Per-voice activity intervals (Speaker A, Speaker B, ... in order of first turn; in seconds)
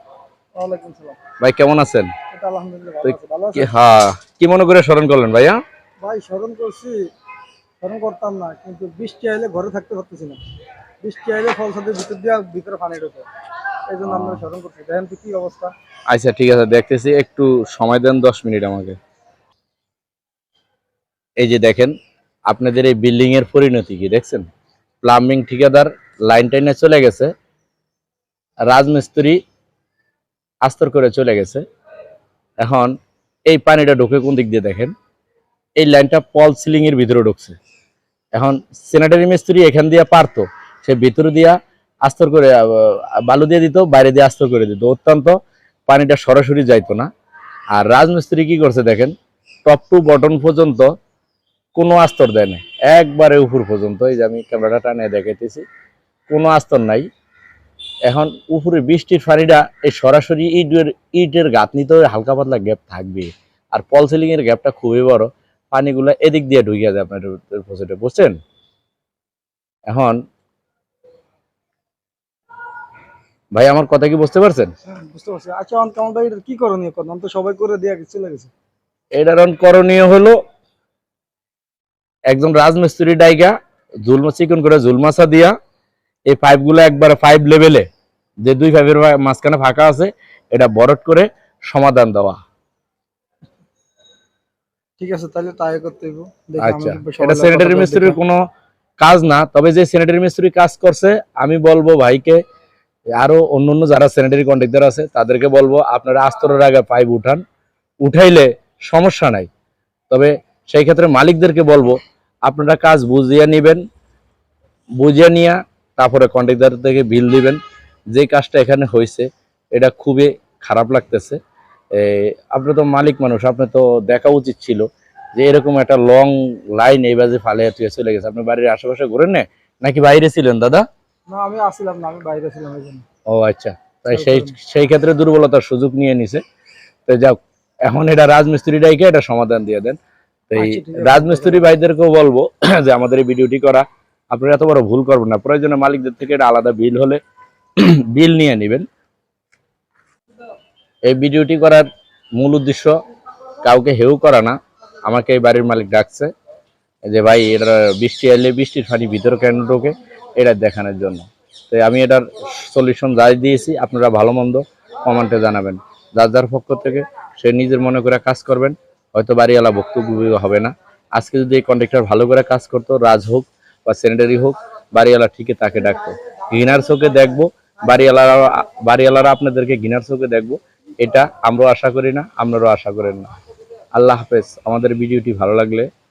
Speaker A: 0.6-1.2, 2.3-3.7, 6.0-7.0, 7.8-10.4, 11.0-13.3, 13.9-15.7, 74.9-78.5, 95.0-98.2, 131.3-133.1, 134.1-134.6, 140.6-141.7
Speaker B: 1.4-2.1, 3.0-5.6, 14.1-14.4, 16.1-19.0, 21.4-21.9, 22.5-24.4, 25.0-27.3, 28.7-29.4, 30.6-31.6, 32.6-33.0, 33.5-34.9, 35.8-37.6, 38.4-45.4, 45.9-47.1, 47.7-49.1, 49.7-50.9, 51.8-55.6, 56.3-57.1, 58.1-68.4, 69.9-70.2, 73.5-74.7, 79.2-80.4, 82.3-83.5, 84.0-85.5, 86.3-87.9, 88.4-92.4, 96.6-98.4, 99.0-102.4, 103.2-107.4, 108.0-109.5, 110.1-113.8, 115.0-117.6, 118.1-121.4, 121.9-130.8, 133.3-136.4, 137.1-140.0, 140.5-147.2, 147.8-148.9, 151.1-152.9, 153.6-154.6, 155.1-156.3, 157.1-183.3, 183.9-185.9